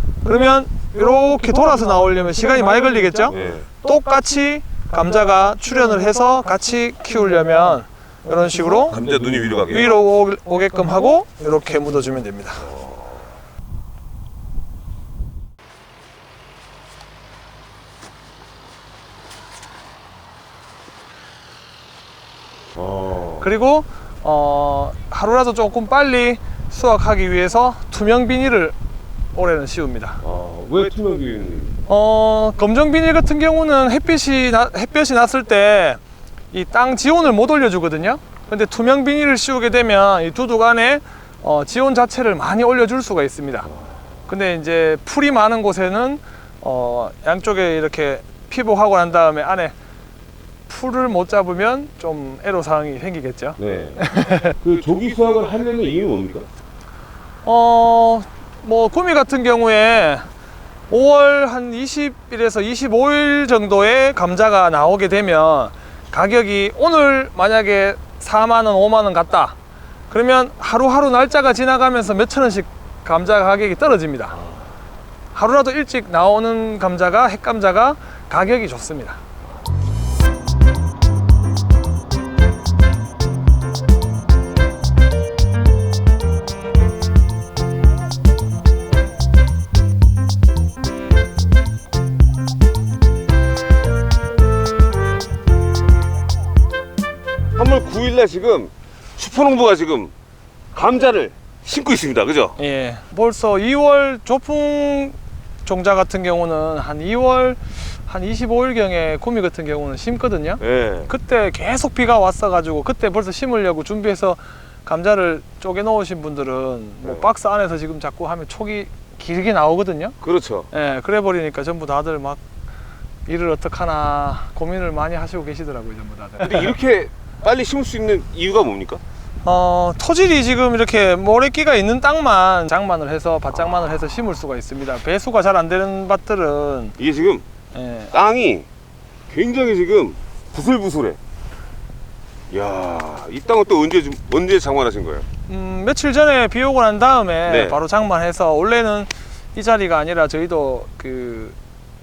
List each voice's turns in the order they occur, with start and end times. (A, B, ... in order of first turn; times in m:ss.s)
0:00.2-0:09.0 A
0:03.3-0:03.6 B
0:08.9-0:09.9 B
0:09.7-0:12.7 A
0:22.7-0:23.5 B
0:23.4-0:28.7 A
0:29.3-0:30.2 A
0:30.2-0:31.8 B
0:31.9-0:36.0 A
0:36.5-0:43.7 A
0:44.3-0:49.7 A
0:50.7-0:54.6 A
0:53.6-0:54.0 B
0:54.6-0:56.5 B
0:57.4-1:00.3 A
1:00.9-1:09.6 A
1:10.1-1:14.4 A
1:15.3-1:19.2 A
1:37.5-1:40.1 B
1:40.7-1:42.6 B
1:42.6-2:00.2 A
1:50.6-1:51.1 B
1:57.0-1:57.3 B
2:00.2-2:00.7 B
2:00.7-2:02.4 A
2:03.3-2:06.7 A
2:06.4-2:09.0 B
2:09.4-2:17.0 A
2:17.0-2:17.4 B
2:17.7-2:18.1 A
2:18.1-2:18.6 B
2:19.3-2:21.2 B
2:22.5-2:25.2 B
2:25.5-2:31.5 A
2:27.5-2:27.8 B